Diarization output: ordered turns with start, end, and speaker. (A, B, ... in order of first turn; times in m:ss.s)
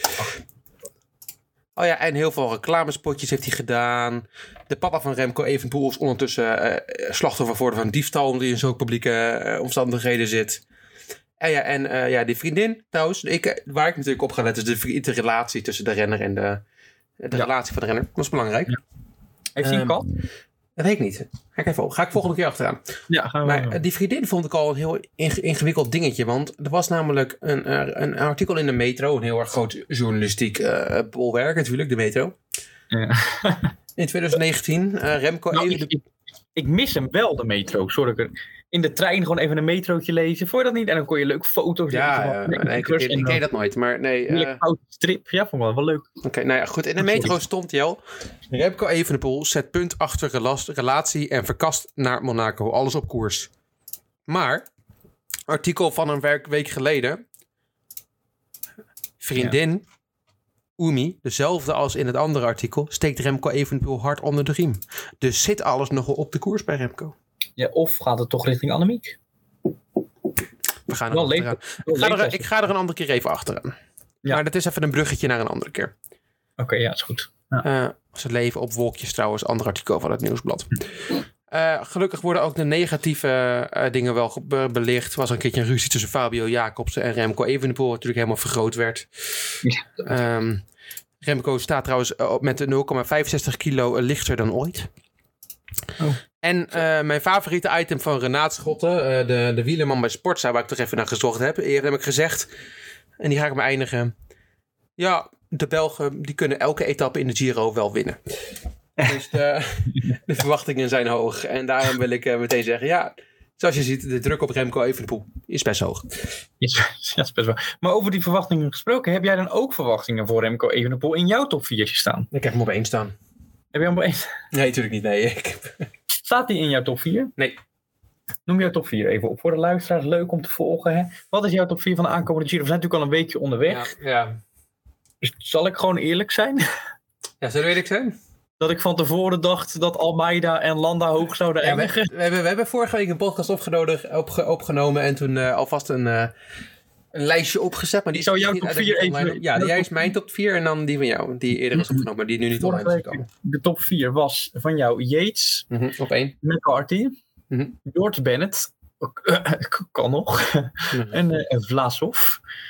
0:01.8-0:10.6 A
0:11.4-0:16.6 A
0:17.2-0:18.8 A
0:19.6-0:20.1 B
0:19.6-0:20.0 A
0:20.8-0:22.8 A
0:23.1-0:23.8 B
0:23.4-0:32.4 A
0:32.9-0:33.7 B
0:34.0-0:36.0 A
0:35.5-0:36.0 B
0:36.6-0:43.4 B
0:41.9-0:44.6 A
0:44.3-0:46.1 B
0:46.2-0:48.0 A
0:47.0-0:47.4 B
0:48.5-0:53.5 A
0:54.3-0:54.7 A
0:55.5-0:57.2 A
0:59.2-0:59.8 A
1:00.8-1:07.2 A
1:07.6-1:09.2 B
1:10.9-1:13.8 A
1:11.1-1:12.5 B
1:14.3-1:15.9 A
1:16.6-1:17.6 B
1:17.6-1:20.8 A
1:21.5-1:29.1 A
1:29.6-1:30.1 B
1:30.0-1:30.6 A
1:31.2-1:34.9 A
1:36.4-1:42.5 A
1:43.2-1:44.1 A
1:45.0-1:48.2 A
1:49.0-1:56.0 A
1:56.6-2:02.3 B
2:02.3-2:03.1 A
2:03.7-2:04.3 B
2:04.5-2:05.7 A
2:06.2-2:07.3 B
2:08.5-2:13.9 B
2:13.7-2:14.4 A
2:15.2-2:16.6 B
2:17.4-2:18.2 A
2:18.6-2:22.1 B
2:21.6-2:26.3 A
2:27.1-2:33.3 A
2:28.1-2:30.0 B
2:31.8-2:35.7 B
2:35.7-2:36.4 A
2:36.4-2:37.2 B
2:37.8-2:42.4 B
2:40.9-2:41.2 A